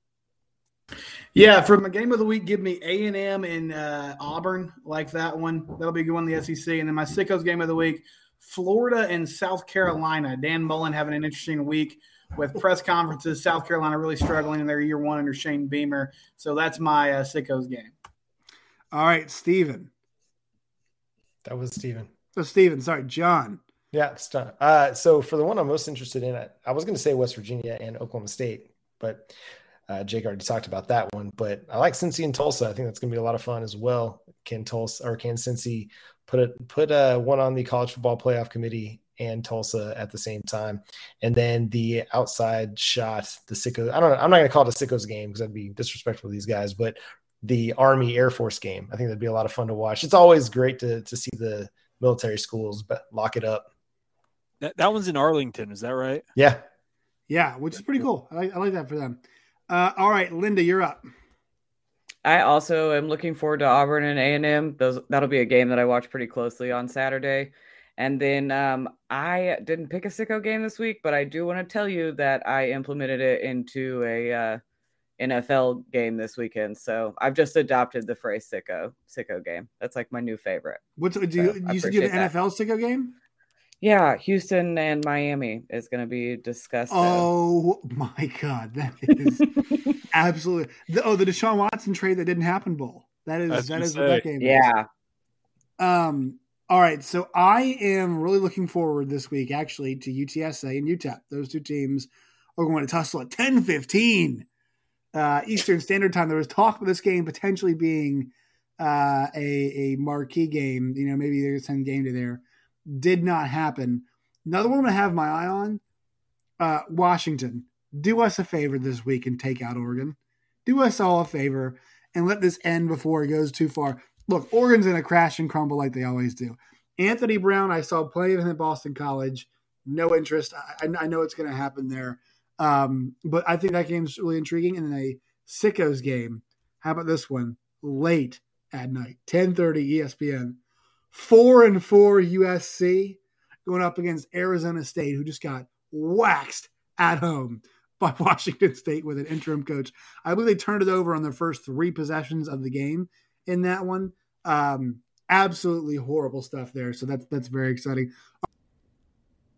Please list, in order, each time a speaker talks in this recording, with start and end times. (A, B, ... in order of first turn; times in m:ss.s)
0:01.3-0:17.9 A
0:18.9-0:19.9 B
0:21.4-0:22.1 C
0:22.4-0:23.6 B
0:23.9-0:29.3 C
0:29.9-0:53.7 C
0:54.6-0:56.2 D
0:56.4-0:56.6 C
0:57.3-1:01.1 B
1:02.2-1:14.6 E
1:15.2-1:20.8 E
1:21.0-1:23.2 B
1:21.4-1:22.3 E
1:23.8-1:27.3 E
1:26.9-1:29.5 B
1:30.1-1:34.7 B
1:33.5-1:34.2 D
1:34.4-1:34.9 E
1:35.8-1:44.5 B
1:45.1-1:55.8 B
1:56.6-2:20.6 B
2:21.1-2:38.1 B